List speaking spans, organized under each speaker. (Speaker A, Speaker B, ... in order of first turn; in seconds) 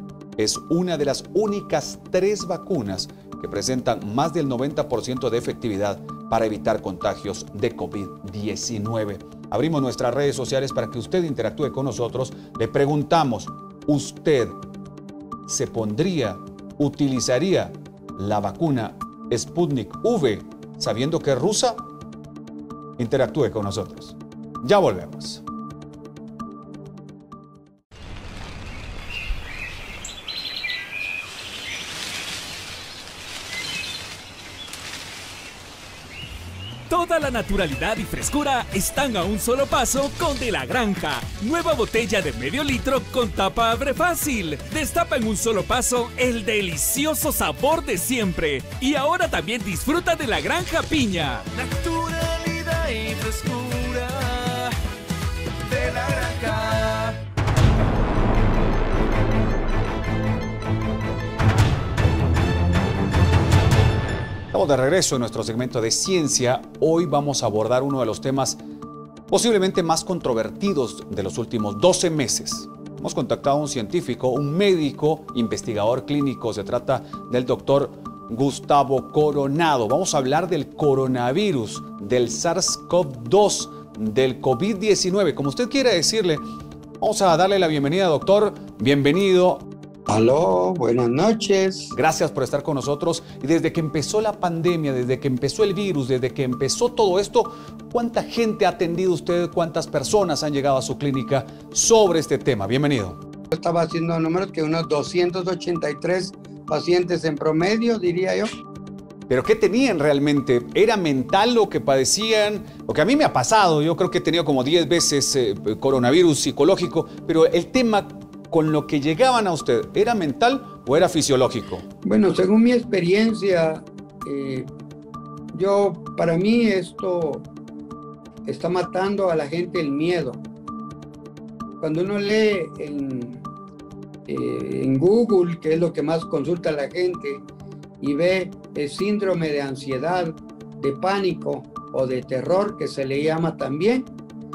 Speaker A: 0.4-14.6, 15.4-21.9, 23.0-25.4, 64.5-68.6, 69.3-86.4, 87.0-89.7, 91.9-103.2, 109.3-121.8
Speaker B: 36.9-54.7, 55.6-57.2
Speaker C: 90.1-91.9, 103.5-108.5, 122.0-124.7, 125.5-127.5, 128.4-130.4, 131.8-133.4, 134.2-137.4, 138.0-144.1